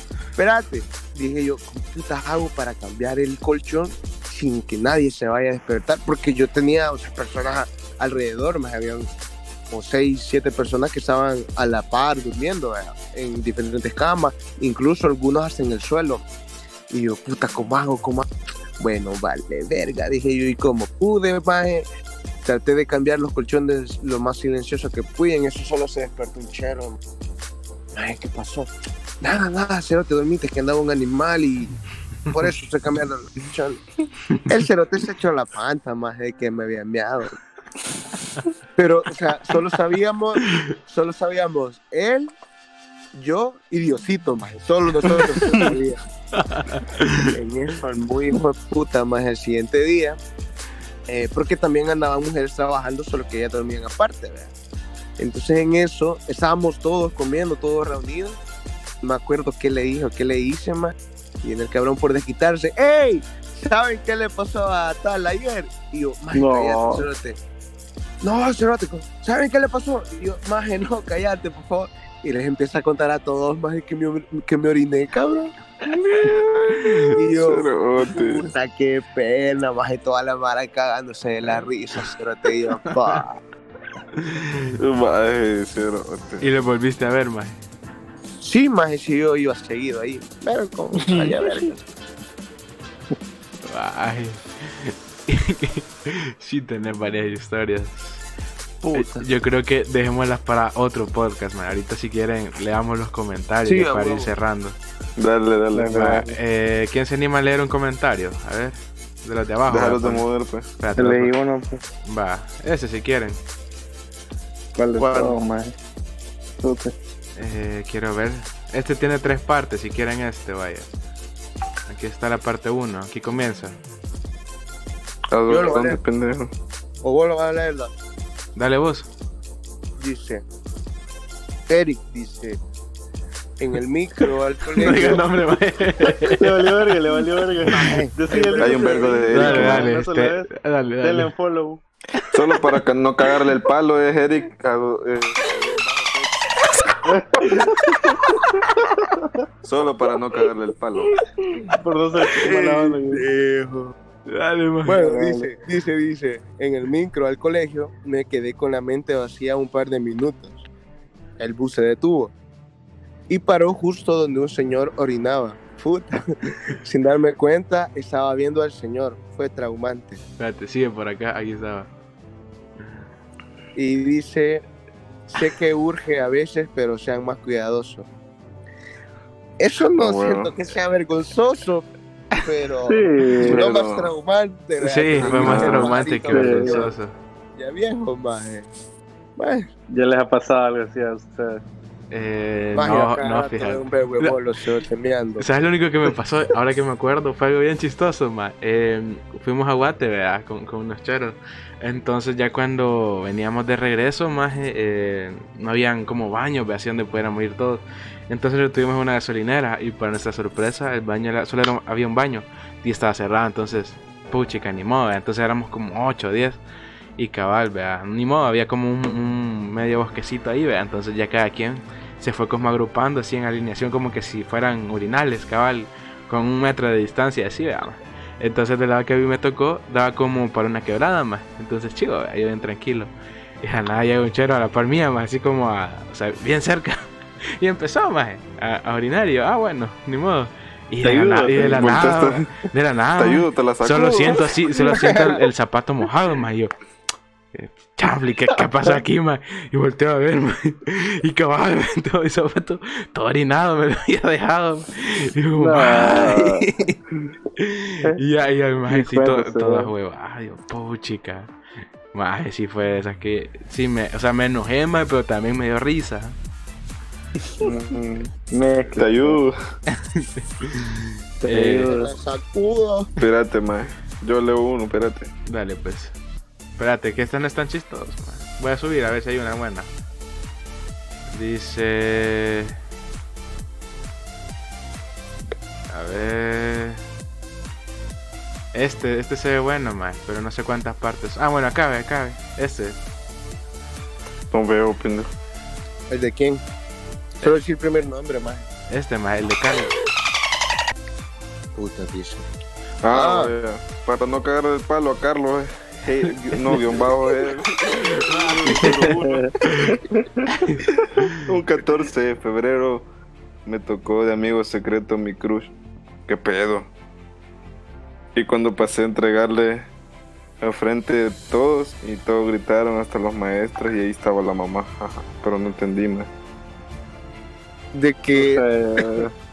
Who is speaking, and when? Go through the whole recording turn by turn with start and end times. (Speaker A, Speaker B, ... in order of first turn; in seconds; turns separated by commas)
Speaker A: 0.4-9.1, Speaker A: 9.7-16.2, Speaker A: 16.9-18.3, Speaker A: 18.8-21.8, Speaker A: 22.5-27.0, Speaker A: 27.9-28.7, Speaker A: 29.2-33.8, Speaker A: 34.5-37.4, Speaker A: 38.8-42.3, Speaker A: 43.1-46.0, Speaker B: 46.4-47.3, Speaker A: 47.3-50.2, Speaker A: 51.1-54.5, Speaker A: 55.2-58.4, Speaker A: 59.0-67.4, Speaker C: 66.3-67.0, Speaker A: 68.2-75.5, Speaker D: 75.9-78.5, Speaker B: 76.7-77.1, Speaker A: 77.2-83.4, Speaker B: 84.3-84.7, Speaker D: 84.8-86.5, Speaker B: 86.4-87.6, Speaker A: 88.4-91.8, Speaker B: 93.7-98.2, Speaker A: 98.8-99.3, Speaker B: 98.9-104.8, Speaker A: 103.7-104.3, Speaker D: 105.2-106.0, Speaker C: 105.7-106.3, Speaker B: 105.9-110.3, Speaker D: 109.7-110.7, Speaker B: 110.8-111.3, Speaker C: 111.0-111.8, Speaker B: 112.0-113.4, Speaker C: 114.8-115.7, Speaker A: 115.0-115.4, Speaker C: 116.6-116.9, Speaker B: 117.4-120.9, Speaker B: 121.9-123.8, Speaker D: 125.3-126.5, Speaker A: 125.5-126.0, Speaker A: 127.0-127.9, Speaker B: 128.6-129.1, Speaker A: 130.0-130.4, Speaker A: 131.7-132.6, Speaker A: 133.6-135.3, Speaker B: 134.8-136.5, Speaker C: 136.4-141.8, Speaker A: 137.7-139.7, Speaker D: 138.6-139.9, Speaker B: 139.3-141.3, Speaker D: 142.3-146.4, Speaker C: 147.1-147.7, Speaker D: 149.6-151.1, Speaker C: 151.7-153.2, Speaker A: 152.3-153.9, Speaker B: 154.3-155.0, Speaker A: 154.8-160.6, Speaker C: 155.0-155.5, Speaker A: 161.4-162.3, Speaker A: 163.3-170.2, Speaker B: 170.4-171.9, Speaker A: 173.8-174.6, Speaker A: 175.3-178.1, Speaker A: 179.6-186.9, Speaker D: 180.0-180.6, Speaker C: 182.9-183.6, Speaker D: 183.4-184.1, Speaker B: 184.8-187.1, Speaker D: 185.2-186.0, Speaker C: 185.4-186.8, Speaker A: 187.6-188.7, Speaker A: 189.4-189.7, Speaker C: 189.9-191.6, Speaker B: 192.1-194.4, Speaker A: 192.7-195.5, Speaker B: 195.4-216.6, Speaker B: 217.2-233.1, Speaker B: 233.6-237.0, Speaker B: 237.6-246.7, Speaker C: 241.0-241.9, Speaker D: 241.5-242.5, Speaker D: 243.2-244.4, Speaker A: 244.8-245.3, Speaker B: 247.5-256.5, Speaker C: 255.6-257.3, Speaker B: 257.6-261.5, Speaker C: 258.9-259.9, Speaker B: 262.1-266.4, Speaker D: 267.6-268.3, Speaker C: 268.4-269.4, Speaker D: 268.9-269.5, Speaker B: 270.1-271.9, Speaker C: 271.4-272.1, Speaker A: 271.9-273.1, Speaker D: 273.2-275.3, Speaker B: 275.5-276.1, Speaker B: 276.8-279.9, Speaker B: 281.3-282.7, Speaker B: 285.9-287.0, Speaker B: 288.7-293.0, Speaker D: 294.5-295.3, Speaker A: 296.1-296.6, Speaker A: 297.4-298.6, Speaker B: 298.9-299.9, Speaker A: 301.8-302.5, Speaker D: 303.0-309.7, Speaker A: 303.1-303.5, Speaker B: 308.1-309.9, Speaker C: 308.8-309.5, Speaker B: 310.5-311.4, Speaker D: 311.4-313.1, Speaker D: 313.7-315.7, Speaker D: 316.3-316.9, Speaker D: 318.4-319.9, Speaker D: 320.6-326.3, Speaker A: 327.9-328.6, Speaker C: 328.4-329.3